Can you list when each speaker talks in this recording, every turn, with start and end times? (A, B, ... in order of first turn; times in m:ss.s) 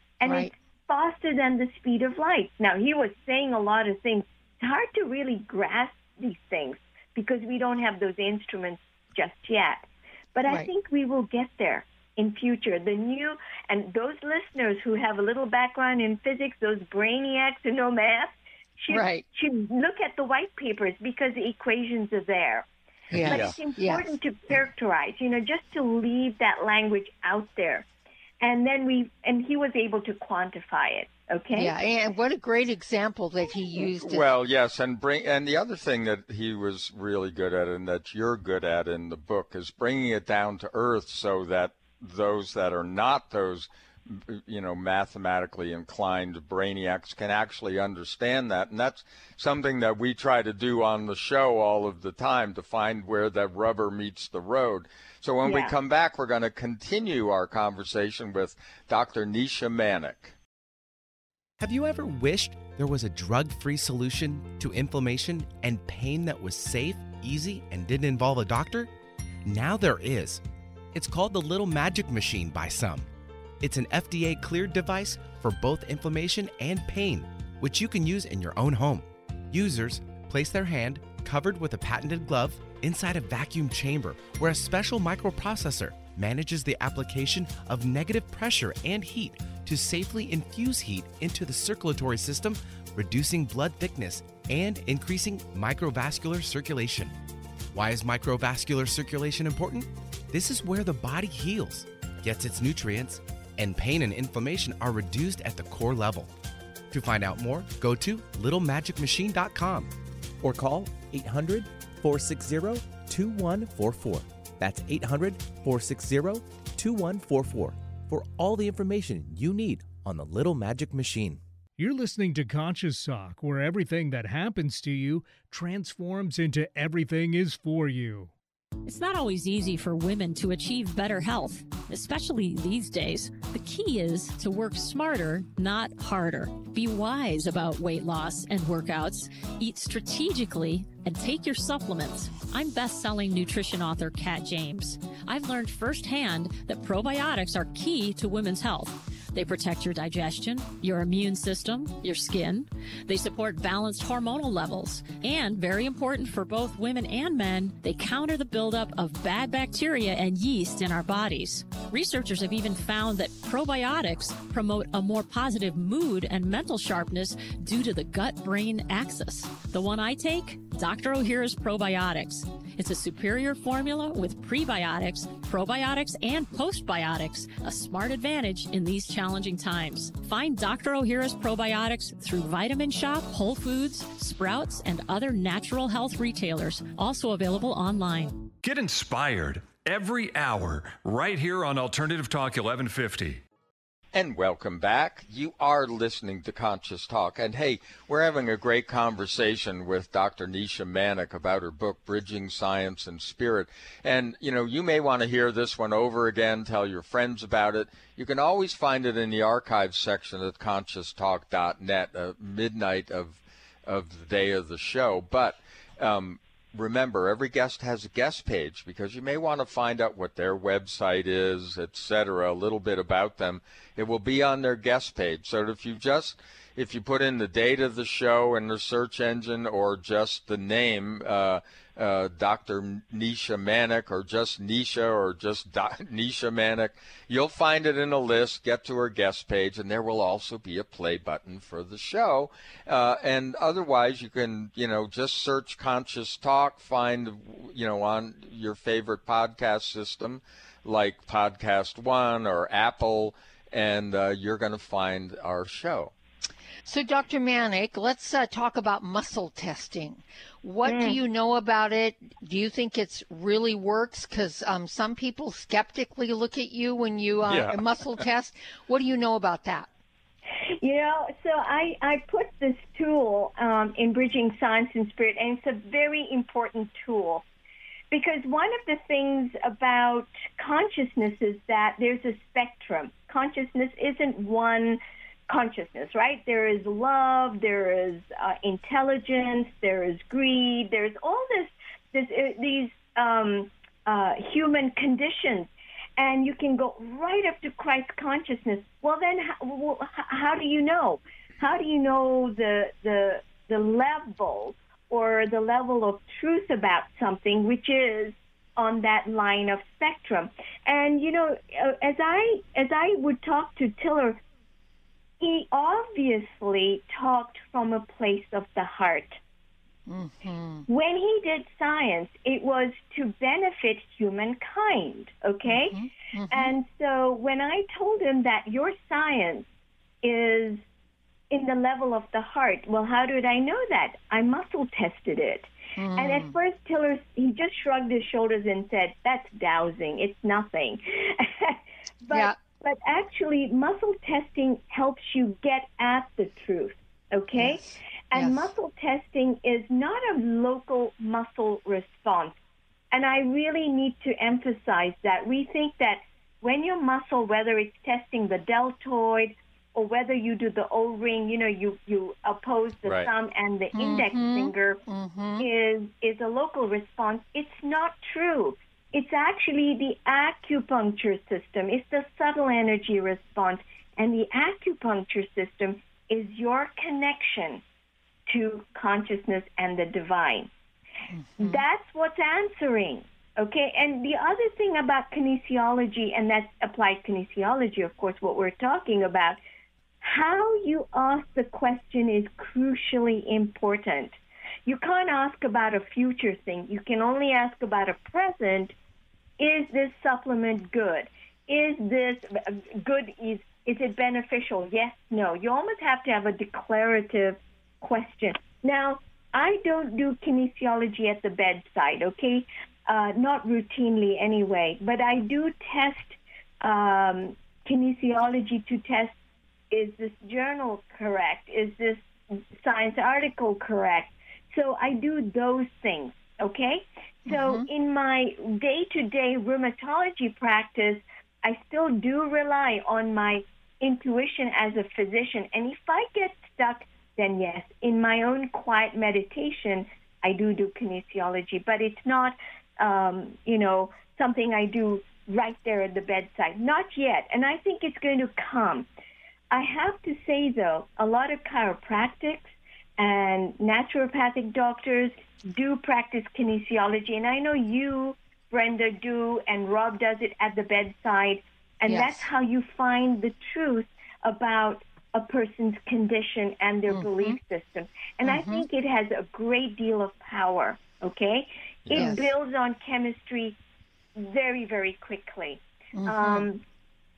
0:00.2-0:22.7 A
0:00.2-0:00.5 B
0:10.4-0:10.7 B
0:18.9-0:19.2 B
0:23.1-0:24.1 B
0:23.2-0:27.9 A
0:23.3-0:23.6 C
0:28.4-0:31.7 A
0:31.5-0:34.3 B
0:34.0-1:00.3 C
0:55.4-0:55.8 A
1:01.6-1:08.9 D
1:09.4-1:10.4 D
1:10.9-1:13.1 D
1:13.6-1:37.2 D
1:37.7-1:46.3 D
1:46.9-2:01.4 D
2:01.8-2:08.3 E
2:08.8-3:08.5 F
3:08.6-3:13.4 G
3:14.1-4:16.1 C
4:16.8-4:29.9 B
4:20.9-4:21.2 A
4:27.5-4:27.8 C
4:30.8-4:37.4 A
4:38.1-5:14.4 A
5:15.4-5:19.4 A
5:20.1-5:20.9 B
5:20.9-5:26.0 A
5:25.6-5:26.7 B
5:26.5-5:29.6 A
5:30.2-5:30.8 A
5:31.5-5:52.6 A
5:36.0-5:36.6 B
5:42.3-5:42.6 B
5:47.6-5:48.7 B
5:53.1-6:05.0 A
6:03.0-6:03.3 C
6:03.9-6:05.7 B
6:05.6-6:17.8 A
6:18.5-6:20.7 A
6:21.3-6:21.8 B
6:21.6-6:29.6 A
6:30.2-6:38.9 A
6:39.6-6:59.3 A
6:59.9-7:29.1 A
7:07.5-7:07.9 B
7:29.7-7:53.8 A
7:42.0-7:42.5 B
7:47.1-7:47.6 B
7:48.4-7:48.9 B
7:52.1-7:52.3 C
7:52.1-7:52.5 B
7:54.4-7:56.8 A
7:56.2-7:56.7 B